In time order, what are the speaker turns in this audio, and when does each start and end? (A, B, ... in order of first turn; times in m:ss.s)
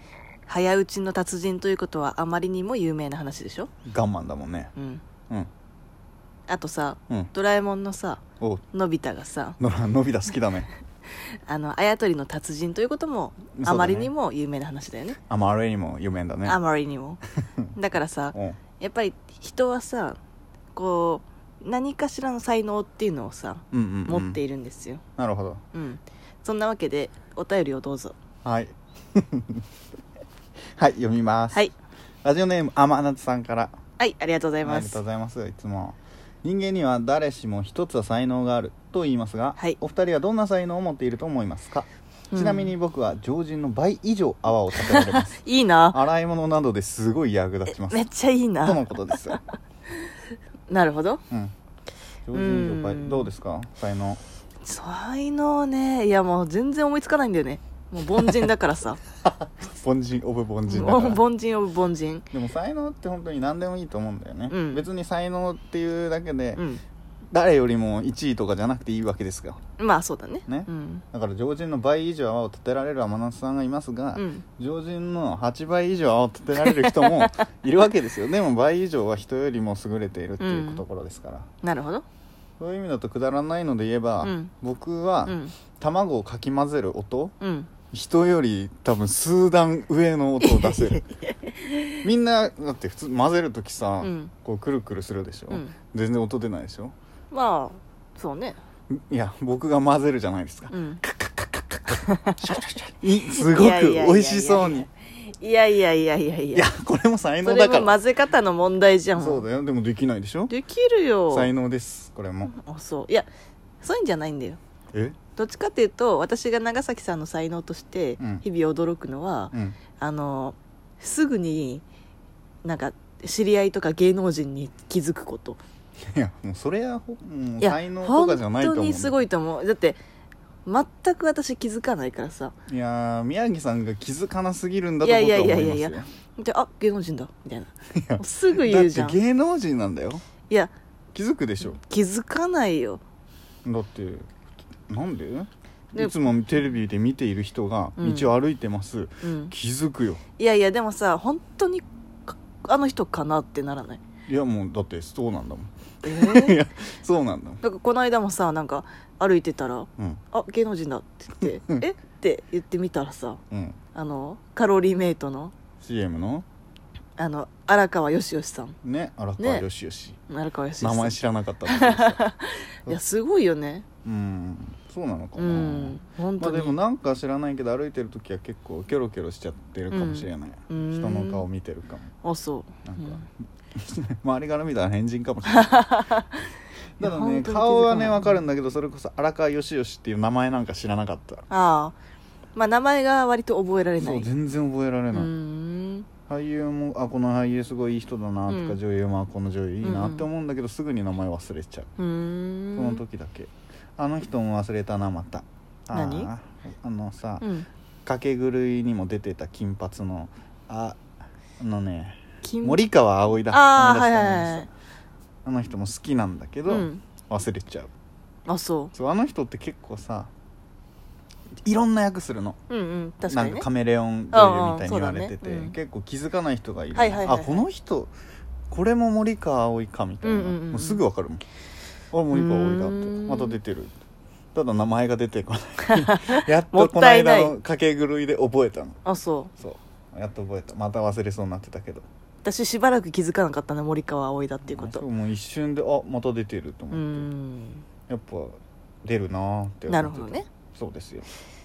0:00.5-0:03.7 A
0:03.9-0:04.7 B
0:04.8-0:05.0 A
0:06.5-0:08.2 A
0:08.7-0:09.6 A
0:09.6-0:10.7 B
0:11.1-0:15.2 A
0:13.6-0:14.1 B
0:15.3-0:16.6 B
0:16.5-0:17.2 A
0:17.8-0:20.2 A
0:18.3-0:18.6 B
0:20.7-0:25.0 A
0:23.7-0:24.4 B
0:25.2-0:25.6 B
0:25.7-0:28.2 A
0:28.4-0:29.6 B
0:30.8-0:31.6 B
0:32.2-0:33.8 B
0:34.0-0:35.0 A
0:34.6-0:48.1 B
0:42.3-0:42.7 A
0:44.8-0:46.0 A
0:47.7-0:49.4 A
0:48.6-0:49.4 B
0:50.7-0:51.2 A
0:52.3-0:54.2 B
0:52.3-0:53.3 A
0:54.6-0:59.0 A
0:58.2-0:58.5 B
0:59.2-1:01.2 B
1:00.7-1:02.3 A
1:02.3-1:06.6 B
1:04.5-1:04.9 A
1:06.6-1:06.8 A
1:07.3-1:09.6 B
1:09.8-1:11.0 A
1:10.5-1:21.5 B
1:14.2-1:14.4 A
1:16.6-1:17.5 A
1:20.4-1:20.8 A
1:21.6-1:22.0 A
1:22.6-1:27.4 B
1:24.2-1:24.5 A
1:25.3-1:25.6 A
1:27.4-1:27.7 A
1:27.9-1:31.0 B
1:30.4-1:32.0 A
1:32.0-1:37.0 B
1:34.0-1:34.3 A
1:37.3-1:38.6 A
1:38.9-1:44.9 B
1:40.7-1:41.0 A
1:42.0-1:42.5 A
1:43.3-1:46.7 A
1:46.5-1:48.0 B
1:47.4-1:49.5 A
1:49.2-1:50.5 B
1:50.5-1:51.5 A
1:51.3-1:52.5 B
1:52.5-1:53.3 A
1:53.8-1:54.6 A
1:55.4-2:01.8 A
1:58.2-1:58.4 B
1:59.5-1:59.8 B
2:02.6-2:05.6 A
2:06.0-2:09.2 B
2:07.6-2:10.0 A
2:10.7-2:12.5 A
2:12.7-2:16.1 B
2:15.0-2:19.2 A
2:17.9-2:20.2 B
2:21.1-2:21.8 B
2:21.7-2:23.0 A
2:23.6-2:24.3 B
2:24.9-2:30.2 B
2:28.0-2:28.4 A
2:29.2-2:29.5 A
2:30.4-2:34.0 A
2:34.3-2:37.6 B
2:36.0-2:36.6 A
2:37.6-2:43.4 A
2:43.5-2:43.8 B
2:43.9-2:45.5 A
2:45.8-2:46.4 B
2:47.2-2:48.8 A
2:48.8-2:50.2 B
2:49.4-2:49.7 A
2:50.3-2:51.2 A
2:50.8-2:52.2 B
2:51.7-2:53.8 A
2:54.0-3:02.1 B
2:55.4-2:56.8 A
2:59.9-3:01.4 A
3:02.2-3:03.2 A
3:02.8-3:05.9 B
3:05.5-3:06.5 A
3:07.0-3:11.5 B
3:07.0-3:08.4 A
3:11.5-3:12.0 A
3:12.6-3:14.3 A
3:14.0-3:15.3 B
3:15.1-3:16.1 A
3:16.3-3:21.9 B
3:18.5-3:18.8 A
3:19.8-3:20.3 A
3:22.0-3:23.0 A
3:22.8-3:27.5 B
3:25.9-3:26.3 A
3:27.4-3:27.7 A
3:28.0-3:31.0 B
3:31.6-3:34.7 B
3:32.4-3:32.8 A
3:33.5-3:34.7 A
3:35.4-3:37.9 B
3:36.7-3:37.0 A
3:38.5-3:38.9 A
3:38.9-3:40.3 B
3:41.6-3:42.6 B
3:42.7-3:43.7 A
3:43.3-3:48.1 B
3:44.3-3:45.7 A
3:47.0-3:47.6 A
3:48.7-3:51.4 B
3:50.2-3:51.0 A
3:52.1-3:53.9 B
3:52.3-3:53.6 A
3:54.5-3:59.0 B
3:55.9-3:57.6 A
3:59.0-3:59.5 A
3:59.6-4:02.1 B
4:02.4-4:05.0 A
4:04.6-4:07.3 B
4:06.9-4:07.8 A
4:08.1-4:11.3 B
4:09.9-4:10.5 A